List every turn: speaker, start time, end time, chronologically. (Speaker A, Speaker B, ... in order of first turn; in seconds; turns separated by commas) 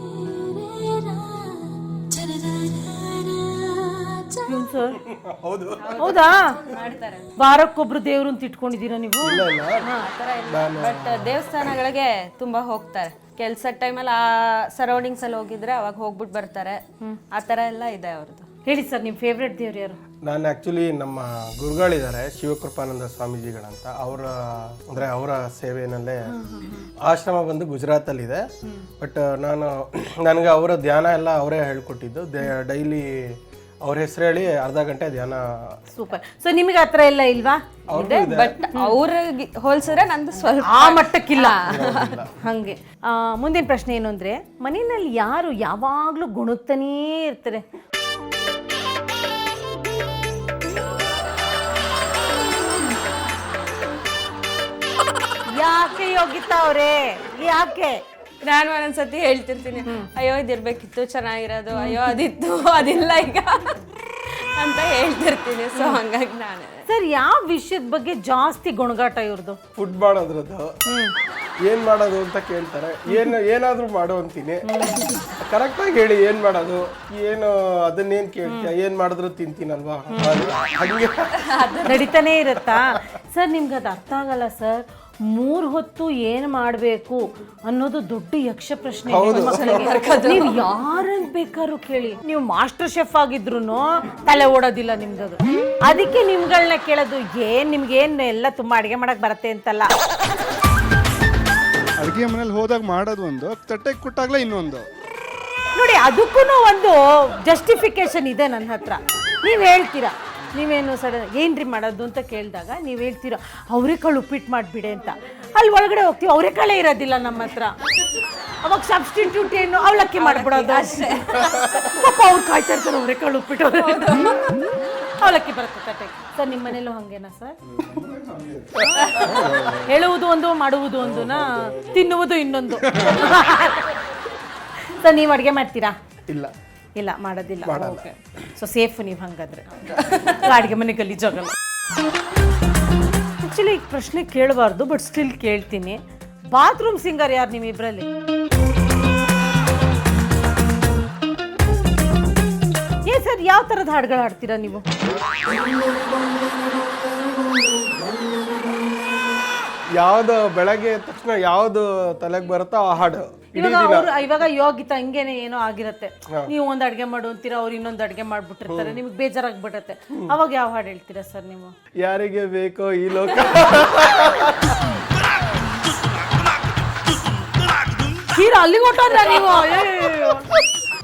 Speaker A: 0.1-4.5, Speaker B: 4.5-5.0, Speaker C: 5.0-6.1, Speaker A: 5.8-7.3, Speaker B: 6.0-6.6, Speaker B: 7.4-10.1, Speaker C: 9.2-9.9, Speaker A: 10.0-18.5, Speaker C: 10.5-11.5, Speaker B: 18.6-20.0, Speaker C: 20.2-26.3, Speaker B: 26.3-26.9, Speaker C: 27.0-28.4, Speaker C: 29.0-35.8, Speaker B: 35.9-38.1, Speaker C: 37.9-38.6, Speaker A: 37.9-42.2, Speaker B: 40.6-41.6, Speaker C: 41.6-42.3, Speaker B: 42.4-47.6, Speaker B: 55.5-58.0, Speaker A: 58.4-66.8, Speaker B: 61.7-62.1, Speaker B: 66.9-69.6, Speaker C: 69.8-70.7, Speaker B: 70.8-71.1, Speaker C: 71.6-74.7, Speaker B: 74.6-75.2, Speaker C: 75.4-82.0, Speaker B: 80.1-80.4, Speaker A: 81.4-82.1, Speaker B: 81.8-99.9, Speaker C: 82.6-83.0, Speaker C: 89.1-89.9, Speaker A: 89.3-90.6, Speaker D: 102.0-104.9, Speaker B: 105.7-117.8, Speaker B: 118.6-124.2, Speaker A: 120.2-121.5, Speaker A: 123.7-124.6, Speaker B: 125.0-127.6, Speaker D: 127.7-128.7, Speaker C: 128.8-129.9, Speaker B: 128.9-133.9, Speaker A: 129.0-129.3, Speaker C: 131.0-132.1, Speaker B: 134.8-135.9, Speaker B: 137.0-141.5, Speaker C: 137.6-138.1, Speaker A: 140.1-140.3, Speaker B: 143.4-148.1, Speaker B: 153.1-154.8, Speaker C: 160.0-164.1, Speaker B: 163.5-171.7, Speaker C: 168.7-169.0, Speaker C: 172.0-174.8, Speaker B: 178.3-180.5